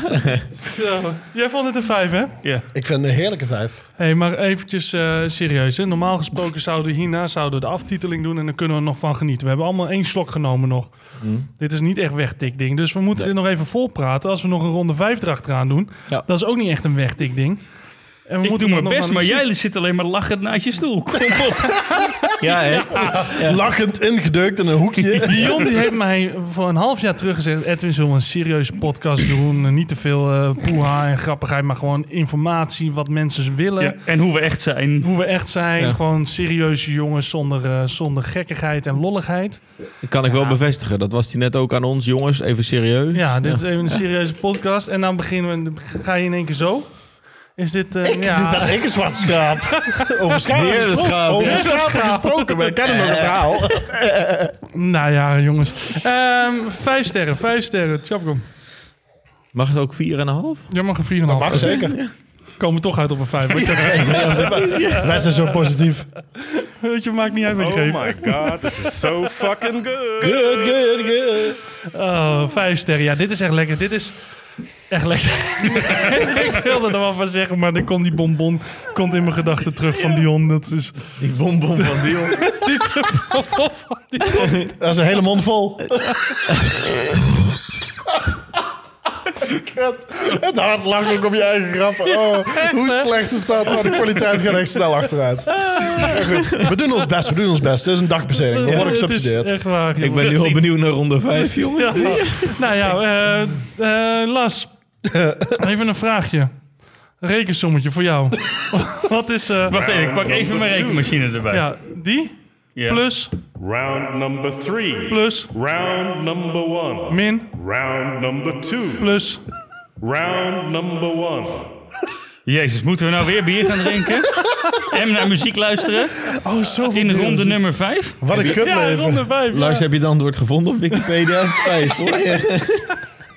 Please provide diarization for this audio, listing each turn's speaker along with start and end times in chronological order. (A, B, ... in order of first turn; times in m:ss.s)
0:00.1-0:00.4 A
0:00.6-0:02.3 B
0:02.7-0:03.8 C
0:04.0-0:10.9 B
0:11.2-0:11.5 A
0:11.6-0:17.6 B
0:18.3-0:19.4 B
0:18.4-0:21.8 D
0:22.4-0:23.6 A
0:22.9-0:25.7 C
0:25.0-0:25.2 D
0:25.2-0:34.0 B
0:33.8-0:35.1 D
0:35.0-0:39.6 B
0:40.0-0:44.0 A
0:40.2-0:40.6 B
0:43.1-0:50.1 B
0:48.0-0:54.6 C
0:50.5-0:51.7 A
0:51.3-0:52.7 B
0:52.9-0:53.8 A
0:54.7-0:58.4 B
0:59.5-1:00.7 A
1:00.7-1:01.8 B
1:01.3-1:02.0 C
1:01.4-1:02.1 A
1:02.6-1:05.4 B
1:03.5-1:06.1 C
1:03.8-1:05.2 A
1:06.5-1:08.5 B
1:07.6-1:10.9 E
1:10.2-1:11.6 C
1:11.9-1:14.2 B
1:14.9-1:21.1 B
1:21.2-1:22.6 A
1:22.5-1:24.5 B
1:24.3-1:24.7 A
1:24.7-1:26.4 C
1:29.4-1:39.6 C
1:32.0-1:33.1 B
1:35.6-1:36.7 A
1:38.4-1:40.4 B
1:38.6-1:39.0 A
1:40.0-1:42.6 A
1:40.1-1:40.7 D
1:41.7-1:44.7 B
1:45.1-1:45.5 C
1:45.5-1:46.5 B
1:47.2-1:49.8 B
1:49.7-1:51.6 D
1:49.7-1:51.1 E
1:51.5-1:53.3 B
1:52.8-1:53.0 D
1:53.6-1:59.1 E
1:55.1-1:55.5 B
1:57.1-1:57.5 B
1:59.0-1:59.4 B
2:00.0-2:01.7 E
2:02.4-2:06.2 D
2:06.3-2:07.6 C
2:06.9-2:08.2 D
2:08.2-2:09.3 C
2:08.3-2:09.8 B
2:09.5-2:12.9 A